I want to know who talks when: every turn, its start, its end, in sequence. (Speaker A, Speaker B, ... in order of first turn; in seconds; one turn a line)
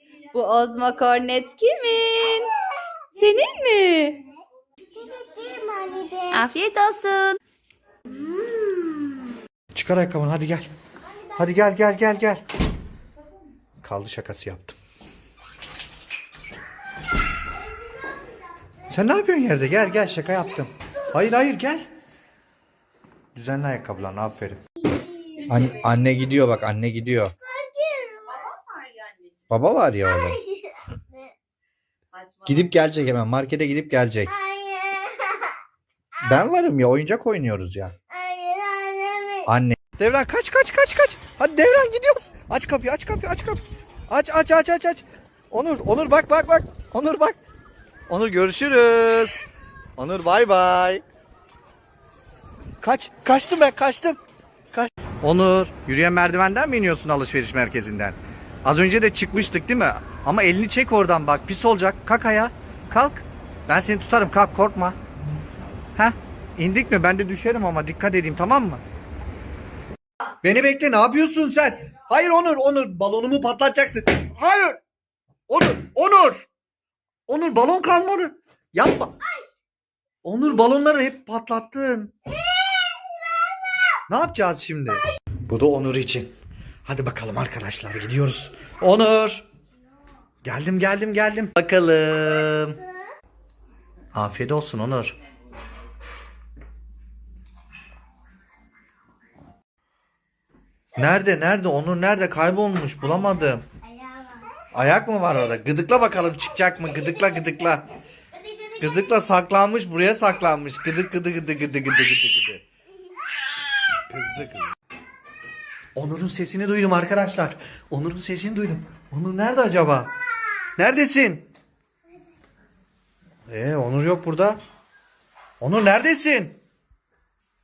Speaker A: 0.3-2.5
Speaker A: 3.2-4.2
Speaker B: 5.0-6.4
Speaker A: 6.3-7.4
Speaker B: 8.2-9.1
Speaker C: 9.7-10.7
Speaker C: 11.3-12.4
Speaker C: 13.8-14.8
Speaker C: 18.9-21.9
Speaker C: 23.4-24.6
Speaker C: 25.4-27.3
Speaker B: 27.4-28.4
Speaker A: 28.3-29.3
Speaker C: 29.5-30.4
Speaker B: 30.2-31.2
Speaker A: 32.2-32.5
Speaker C: 32.5-34.3
Speaker B: 34.4-35.5
Speaker C: 36.2-38.0
Speaker B: 38.1-39.5
Speaker C: 39.5-47.4
Speaker C: 48.1-49.4
Speaker C: 50.0-51.0
Speaker C: 52.8-54.2
Speaker C: 54.7-65.0
Speaker C: 66.0-68.8
Speaker C: 70.4-74.8
Speaker C: 75.5-76.5
Speaker C: 77.3-79.1
Speaker C: 80.2-82.1
Speaker C: 84.1-86.3
Speaker C: 86.8-89.5
Speaker C: 90.4-92.8
Speaker C: 94.1-95.2
Speaker C: 101.0-103.6
Speaker C: 104.7-107.8
Speaker C: 108.8-112.6
Speaker C: 114.1-114.7
Speaker C: 116.0-120.1
Speaker C: 120.8-121.5
Speaker C: 123.5-124.6
Speaker C: 125.6-126.6